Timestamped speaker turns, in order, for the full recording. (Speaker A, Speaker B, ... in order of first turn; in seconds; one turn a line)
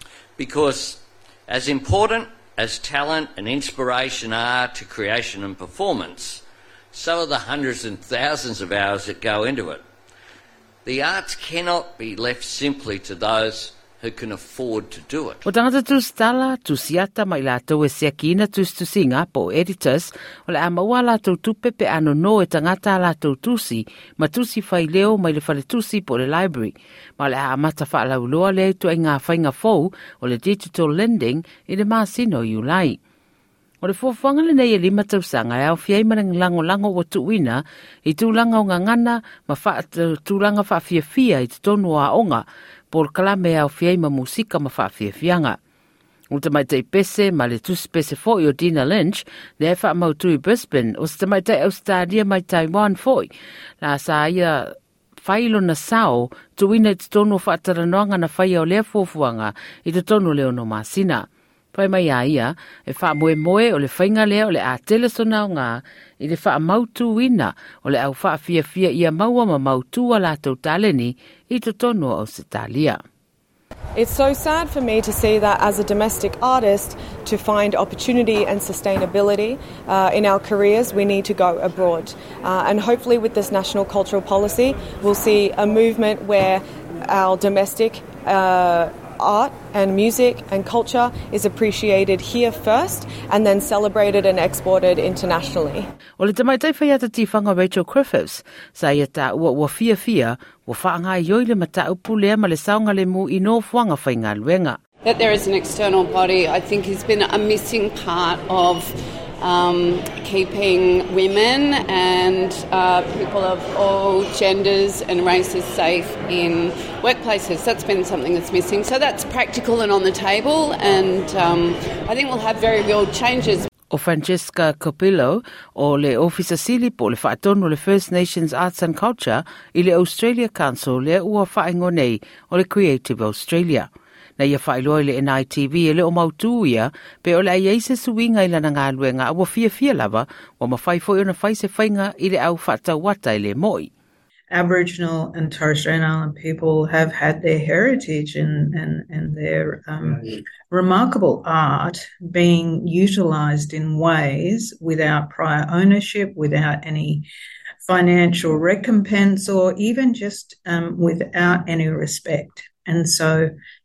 Speaker A: 0.4-9.8
Speaker A: 10.8-15.4
Speaker B: 15.5-33.0
Speaker B: 33.8-45.6
Speaker B: 46.3-53.3
Speaker B: 53.8-73.0
Speaker C: 74.0-95.9
Speaker B: 96.2-104.8
Speaker D: 105.0-123.7
Speaker B: 123.9-143.9
Speaker E: 144.5-157.3
Speaker E: 157.8-163.5